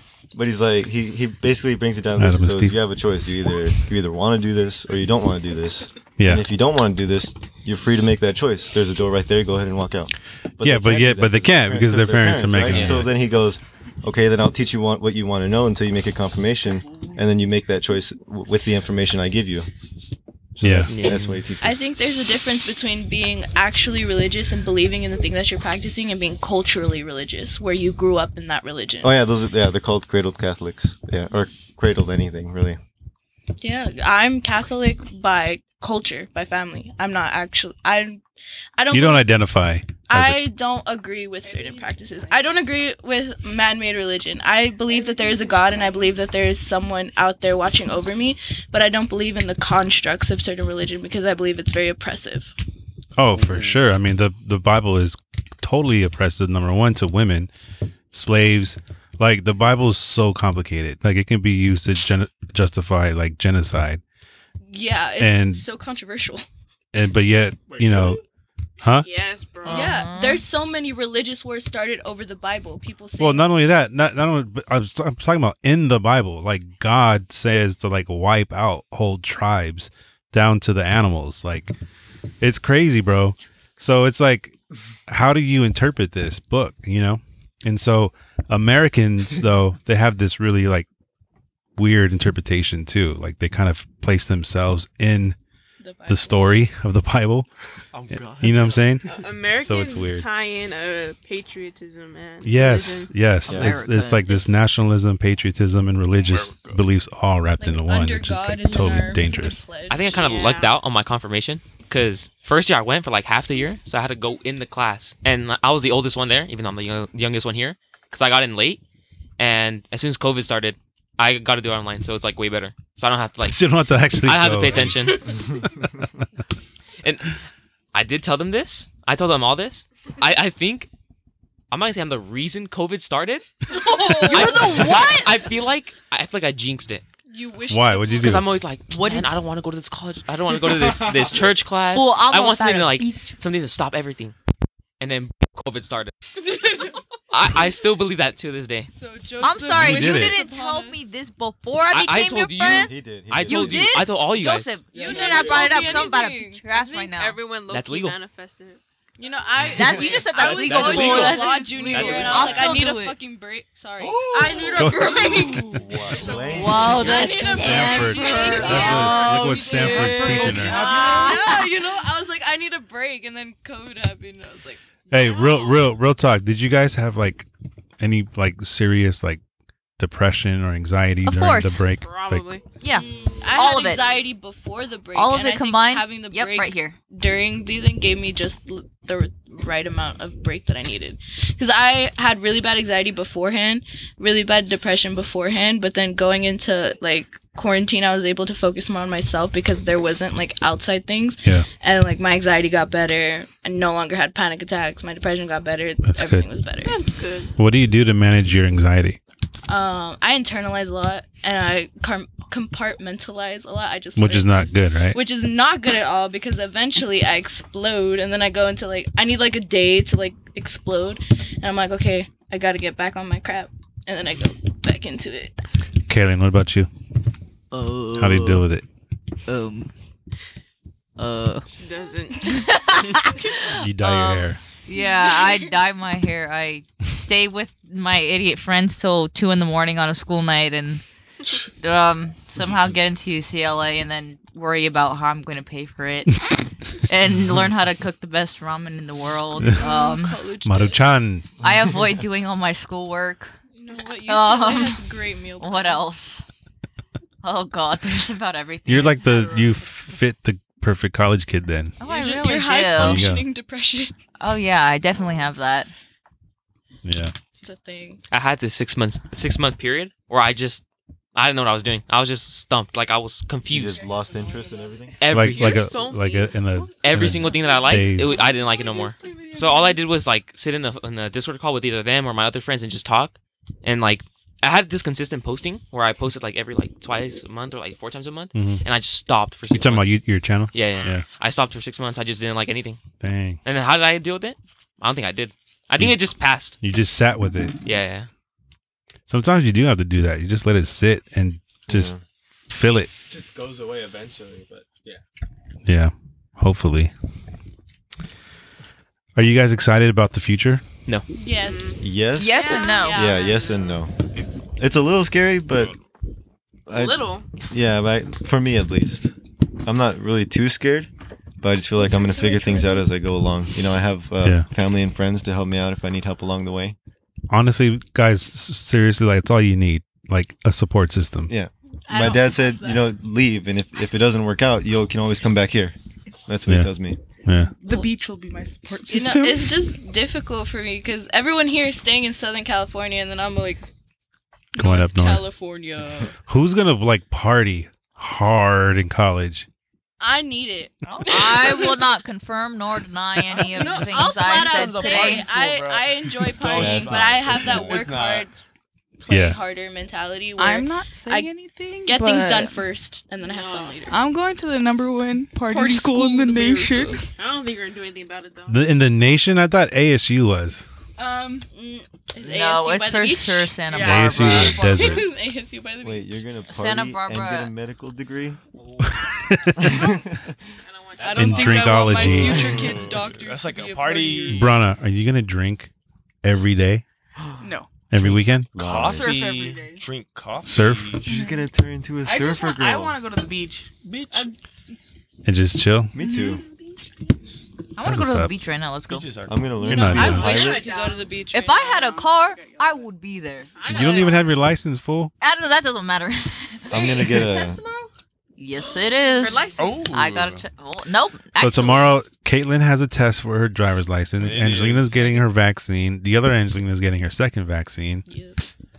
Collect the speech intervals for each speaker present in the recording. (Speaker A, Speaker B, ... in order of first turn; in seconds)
Speaker A: 0.3-19.7, 20.6-21.9, 29.0-32.8, 103.5-103.8, 152.6-154.0, 165.3-167.6, 273.7-275.3, 301.9-302.2, 312.0-314.1, 314.8-316.0, 316.9-319.3, 319.8-321.1, 321.6-327.0, 331.5-337.2, 356.6-358.1, 376.0-378.6, 379.8-380.6, 382.4-383.1, 387.4-387.7, 388.7-389.4, 391.3-393.2, 396.1-396.6, 399.5-400.9, 406.9-407.8
Speaker B: 2.2-2.8, 6.2-6.5, 10.6-13.1, 20.6-21.0, 38.9-40.4, 53.2-57.5, 58.1-64.0, 65.2-65.7, 66.9-68.2, 68.8-69.1, 73.2-81.7, 82.4-84.6, 85.1-90.9, 91.8-95.4, 96.1-97.5, 98.1-100.3, 102.4-109.6, 123.4-125.1, 137.7-138.6, 149.7-150.4, 164.8-165.6, 167.5-170.9, 175.1-177.5, 178.0-179.4, 180.0-182.5, 206.0-206.4, 207.6-209.2, 214.2-215.2, 226.1-226.9, 228.2-228.8, 233.8-234.6, 250.7-251.5, 258.9-261.9, 263.0-263.5, 267.0-267.3, 275.3-278.4, 288.6-288.8, 289.7-291.2, 293.2-293.6, 296.0-297.8, 299.3-302.1, 302.7-303.1, 305.9-307.1, 309.4-310.8, 324.4-324.7, 327.5-331.5, 336.7-336.9, 337.4-337.7, 344.8-345.5, 346.5-349.7, 359.3-359.6, 368.7-370.9, 374.0-375.3, 379.5-379.9, 381.4-382.9, 384.5-385.9, 386.4-387.0, 388.1-388.7, 390.6-391.2, 395.4-396.1, 398.0-398.5, 399.9-400.6, 403.9-405.3, 411.6-418.3
Speaker C: 12.7-13.0, 20.9-21.4, 109.9-118.8, 119.4-125.3, 127.0-127.3, 127.9-130.9, 131.7-133.5, 134.2-137.0, 138.2-144.3, 145.0-146.1, 147.3-148.9, 151.9-154.8, 157.7-158.2, 160.4-162.6, 268.3-274.0, 275.2-275.9, 277.0-290.2, 290.7-293.0, 293.6-296.8, 297.9-298.3
Speaker D: 21.6-29.1, 33.6-38.2, 38.8-39.3, 40.1-52.5, 64.7-66.5, 69.7-73.5, 107.6-110.3, 133.7-135.3, 137.3-138.4, 146.5-147.0, 148.9-151.0, 154.9-156.6, 159.2-165.8, 166.3-175.6, 182.9-207.0, 209.7-225.6, 234.9-235.7, 249.7-251.1, 253.8-256.1, 262.0-264.1, 267.6-268.2, 311.3-312.0, 312.5-313.7, 322.0-323.1, 332.1-333.1, 337.9-338.1, 339.1-343.9, 344.8-346.4, 350.2-352.1, 353.7-358.5, 359.2-361.5, 362.1-364.1, 365.7-367.3, 371.7-373.9, 374.5-376.4, 381.2-384.8, 400.0-401.8, 418.3-418.6
Speaker E: 41.5-42.6, 44.9-46.0, 68.9-70.1, 99.0-103.1, 110.1-110.8, 155.0-158.8, 164.7-165.4, 166.2-169.1, 170.0-171.3, 175.2-175.8, 182.0-183.7, 206.8-207.5, 231.8-232.7, 275.4-276.8, 277.6-278.5, 311.6-312.0, 312.6-314.0, 316.9-317.5, 353.7-354.5, 363.4-364.1, 367.3-368.9, 380.8-382.1, 400.2-401.4, 403.8-404.6, 406.9-408.1, 409.3-410.1
Speaker F: 67.7-68.2, 97.9-99.0, 106.3-106.8, 140.7-141.5, 164.0-166.5, 303.3-305.2, 351.1-351.8, 353.8-358.5, 378.8-379.5, 381.2-384.8, 388.1-391.3, 394.1-394.5, 399.1-399.6, 400.1-400.4, 409.8-410.6, 414.4-415.4
Speaker G: 69.6-70.5, 103.5-104.4, 134.2-135.3, 138.9-139.3, 141.9-143.3, 149.4-152.9, 153.4-157.4, 159.7-163.2, 166.5-171.7, 181.2-181.8, 182.8-184.2, 185.1-187.0, 227.7-228.7, 229.5-229.9, 231.2-231.7, 232.5-241.0, 241.8-246.5, 247.1-250.4, 251.6-253.5, 254.2-255.0, 255.6-256.4, 257.4-259.8, 262.0-263.3, 264.4-265.9, 312.4-313.2, 351.3-355.5, 372.4-374.8, 376.7-377.7, 397.9-399.3, 401.5-403.7, 405.4-407.2, 408.6-412.2
Speaker H: 95.8-96.4, 277.4-280.1, 337.8-339.8, 360.6-362.8, 364.1-367.2, 371.2-371.7, 373.9-375.0, 387.6-387.9, 389.0-390.1, 391.3-391.7, 392.2-394.5, 396.2-397.0, 401.8-402.0